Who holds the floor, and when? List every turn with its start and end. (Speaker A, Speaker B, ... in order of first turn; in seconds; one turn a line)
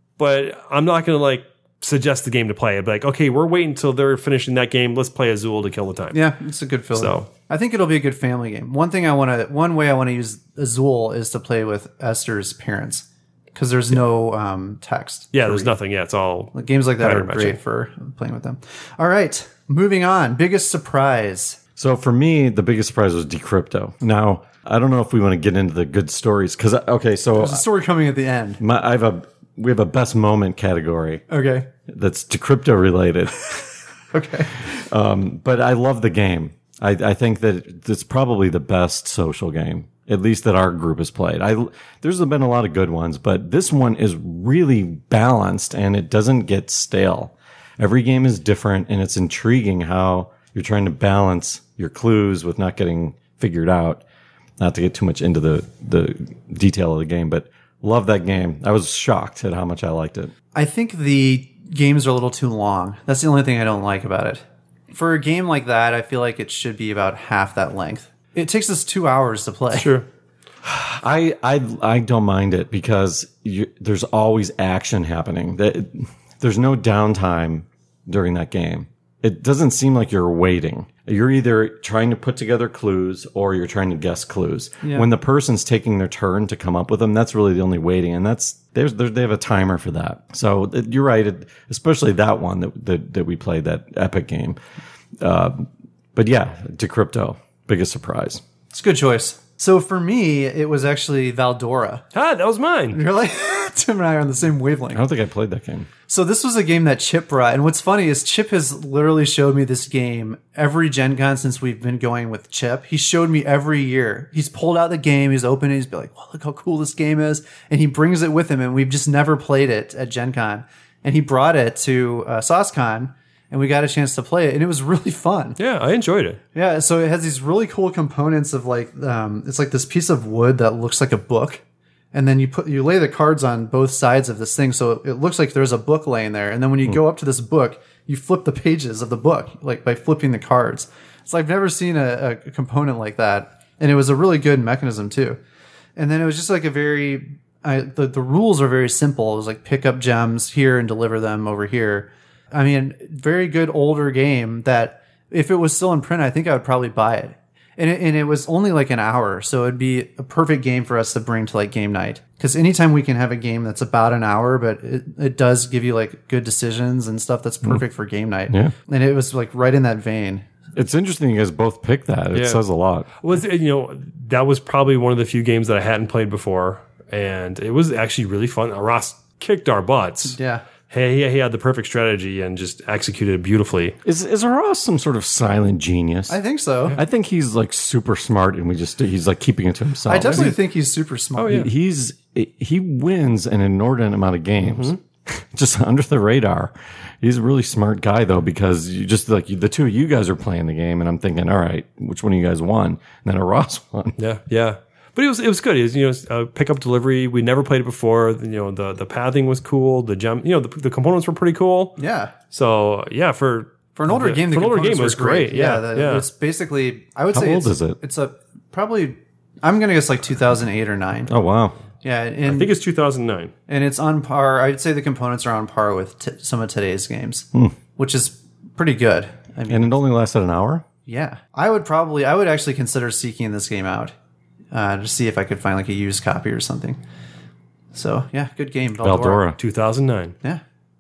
Speaker A: 0.2-6.2
Speaker B: 6.1-15.7
Speaker A: 7.0-7.3
Speaker A: 15.3-17.6
Speaker B: 16.5-21.6
Speaker C: 21.8-27.6
Speaker B: 27.4-28.6
Speaker C: 28.6-31.2
Speaker B: 31.3-31.7
Speaker C: 31.9-33.7
Speaker B: 34.1-34.6
Speaker C: 34.6-54.0
Speaker C: 54.6-60.3
Speaker B: 60.5-70.0
Speaker A: 69.7-70.1
Speaker C: 70.6-94.6
Speaker B: 84.8-85.1
Speaker C: 95.2-98.4
Speaker B: 98.7-102.0
Speaker A: 102.1-103.0
Speaker B: 102.9-105.0
Speaker C: 104.9-105.9
Speaker B: 106.1-125.6
Speaker A: 125.6-126.4
Speaker B: 126.5-131.6
Speaker B: 132.1-145.4
Speaker B: 146.0-170.5
Speaker C: 170.8-173.1
Speaker A: 172.3-172.6
Speaker A: 173.2-180.4
Speaker B: 180.3-180.6
Speaker A: 180.9-184.0
Speaker C: 184.1-186.4
Speaker B: 186.3-187.0
Speaker C: 186.9-190.6
Speaker B: 190.1-191.7
Speaker A: 191.4-191.7
Speaker C: 191.4-204.2
Speaker A: 194.6-195.0
Speaker A: 204.2-212.0
Speaker B: 212.0-212.3
Speaker A: 212.5-216.3
Speaker B: 213.9-221.3
Speaker C: 217.3-218.0
Speaker C: 221.3-221.8
Speaker B: 222.0-222.7
Speaker A: 222.5-223.5
Speaker B: 223.7-229.9
Speaker C: 229.7-230.8
Speaker B: 231.1-234.1
Speaker B: 234.7-237.0
Speaker B: 237.9-239.5
Speaker C: 239.0-239.6
Speaker A: 239.6-240.3